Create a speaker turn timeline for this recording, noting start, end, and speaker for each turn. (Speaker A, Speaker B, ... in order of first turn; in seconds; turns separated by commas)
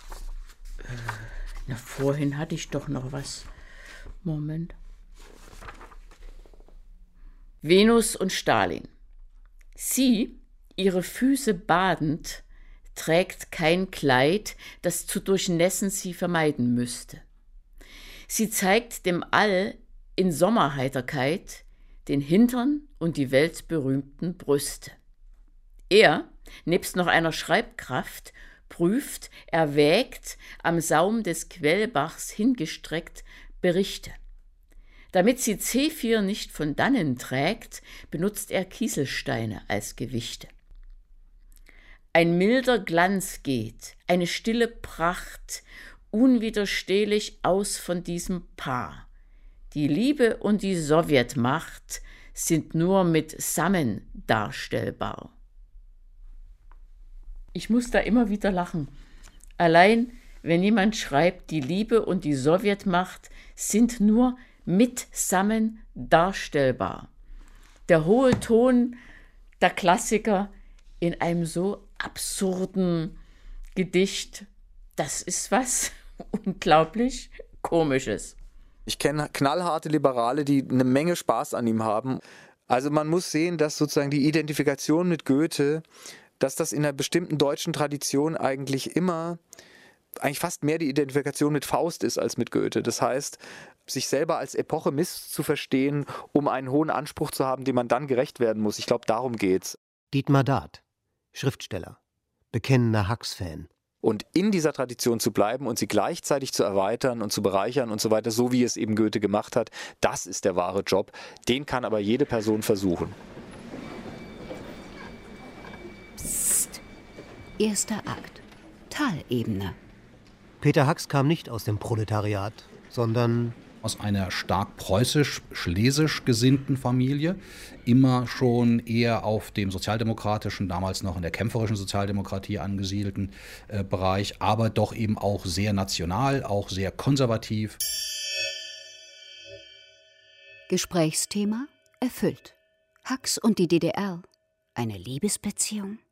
Speaker A: 0.8-3.5, Speaker A: 4.2-4.7, Speaker A: 7.6-8.9, Speaker A: 9.8-12.4, Speaker A: 12.9-17.2, Speaker A: 18.3-24.9, Speaker A: 25.9-34.1, Speaker A: 35.1-40.5, Speaker A: 42.1-49.1, Speaker A: 49.7-55.3, Speaker A: 57.5-58.9, Speaker A: 59.6-67.1, Speaker A: 67.9-69.0, Speaker A: 69.6-73.2, Speaker A: 73.7-78.3, Speaker B: 78.9-85.8, Speaker B: 86.4-89.4, Speaker B: 90.2-99.8, Speaker C: 100.1-100.8, Speaker C: 101.3-102.0, Speaker C: 102.5-103.7, Speaker B: 104.0-113.2, Speaker D: 116.2-116.8, Speaker D: 117.6-119.8, Speaker C: 120.6-123.6, Speaker E: 123.8-137.8, Speaker D: 140.7-146.0